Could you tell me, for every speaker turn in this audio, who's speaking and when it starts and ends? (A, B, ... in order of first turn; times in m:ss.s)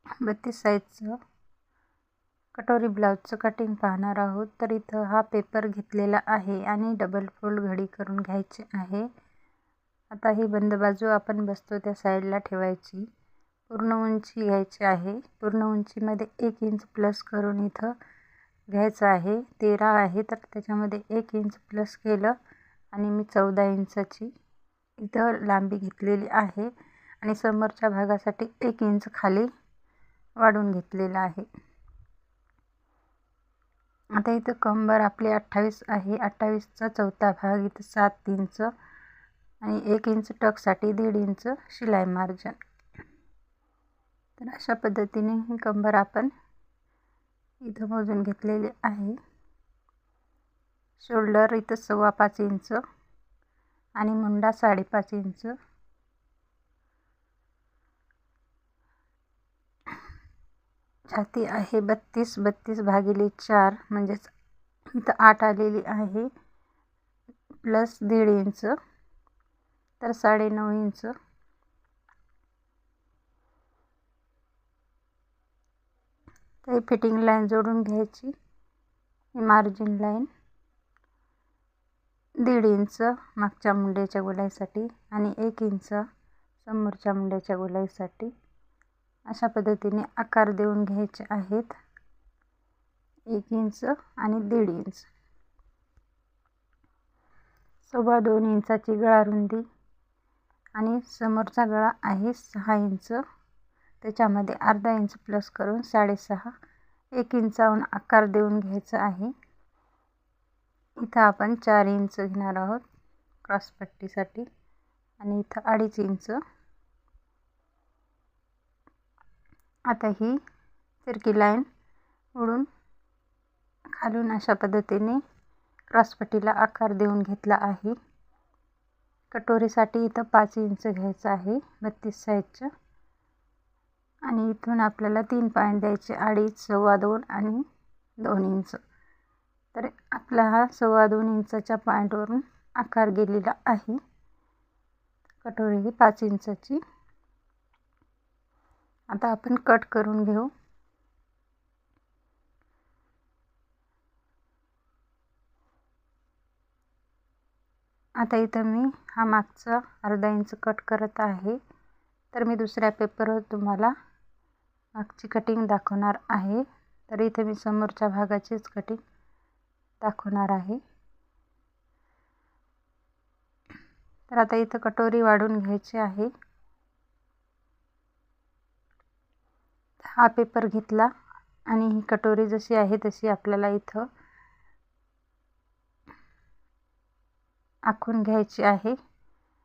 0:00.2-0:01.2 A
0:02.5-0:09.1 A
0:10.1-0:13.0 A
0:13.7-0:17.9 A
0:18.7-0:22.3 A
0:22.9-0:24.3 A
0:25.0-0:26.7 A
0:27.2-0:29.5 A
0:30.4-0:31.5 A
0:34.2-0:38.7 A
0:39.6-0:42.6 A
0:44.4-0:46.3 A
0:47.6-0:49.2 A
0:51.0-0:52.8 A
0:54.0-0:55.5 A
1:01.1-1:04.3 A
1:04.9-1:06.3 A
1:07.6-1:08.8 A
1:10.0-1:11.1 A
1:16.6-1:18.3 A
1:19.4-1:20.3 A
1:22.4-1:26.0 A
1:26.6-1:28.3 A
1:29.3-1:31.7 A
1:33.3-1:35.1 A
1:37.9-1:39.6 A
1:40.8-1:43.2 A
1:44.0-1:46.5 A
1:47.2-1:49.3 A
1:51.0-1:52.8 A
1:53.5-1:54.4 A
1:55.2-1:56.4 A
1:59.9-2:00.4 A
2:01.0-2:01.6 A
2:02.4-2:02.6 A
2:04.0-2:05.2 A
2:05.9-2:08.0 A
2:09.3-2:12.7 A
2:14.3-2:17.6 A
2:18.2-2:18.8 A
2:19.7-2:24.0 A
2:25.4-2:26.8 A
2:29.1-2:30.5 A
2:38.2-2:41.6 A
2:42.3-2:43.9 A
2:45.0-2:49.0 A
2:50.0-2:50.8 A
2:54.3-2:56.3 A
3:00.0-3:01.1 A
3:01.7-3:04.0 A
3:07.9-3:09.0 A